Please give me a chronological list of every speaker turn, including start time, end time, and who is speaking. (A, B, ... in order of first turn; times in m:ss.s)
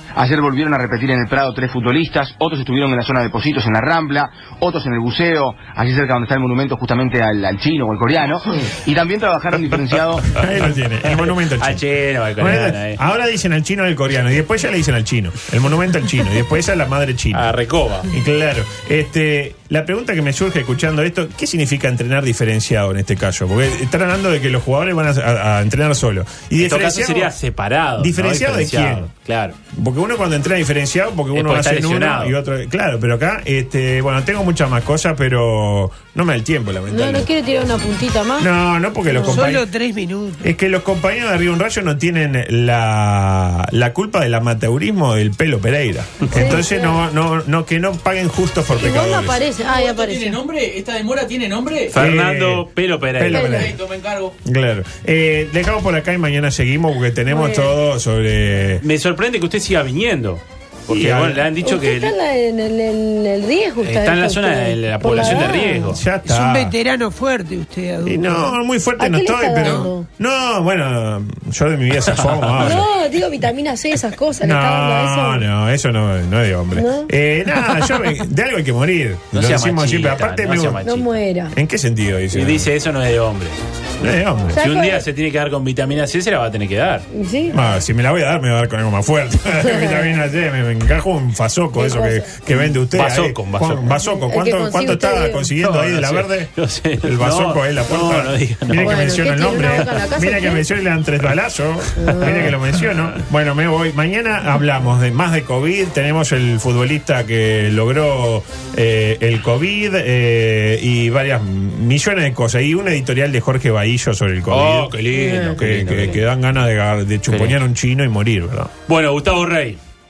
0:00.2-0:10.2 A
0:10.2-0:11.8 B
0:11.0-0:13.0 C
0:12.4-0:17.5 B
0:17.3-0:18.1 C
0:18.0-0:27.3 B
0:26.6-0:29.6 C
0:28.0-0:29.1 B
0:29.7-0:37.3 B
0:31.3-0:32.4 C
0:36.9-0:38.5 D
0:38.4-0:39.7 B
0:39.1-0:39.4 D
0:39.2-0:40.4 E
0:40.4-0:49.4 B
0:46.3-0:46.9 D
0:48.7-0:50.4 D
0:49.6-0:51.9 F
0:51.9-0:53.6 C
0:51.9-0:53.8 B
0:53.3-0:53.7 D
0:53.4-0:54.3 F
0:54.4-0:58.8 B
0:57.3-0:57.7 D
0:58.8-1:02.1 C
1:00.9-1:01.5 B
1:01.6-1:06.0 D
1:03.8-1:06.0 C
1:05.1-1:06.8 B
1:06.2-1:08.5 E
1:08.0-1:12.9 B
1:09.0-1:10.1 D
1:09.6-1:09.9 E
1:12.1-1:12.8 C
1:12.6-1:15.5 D
1:14.4-1:20.8 B
1:16.7-1:17.1 D
1:19.3-1:21.1 C
1:20.8-1:21.5 D
1:21.5-1:22.7 B
1:22.3-1:23.6 C
1:24.0-1:24.6 B
1:24.5-1:25.0 D
1:24.6-1:27.0 C
1:27.1-1:27.6 D
1:27.5-1:54.9 B
1:29.6-1:30.0 D
1:31.8-1:32.3 D
1:32.5-1:33.9 C
1:34.0-1:35.5 D
1:35.6-1:40.0 C
1:38.8-1:40.6 D
1:42.0-1:43.2 C
1:42.0-1:42.5 D
1:54.5-1:56.2 C
1:55.1-1:55.6 D
1:55.6-1:58.7 B
1:57.3-1:57.6 C
1:58.9-1:59.8 C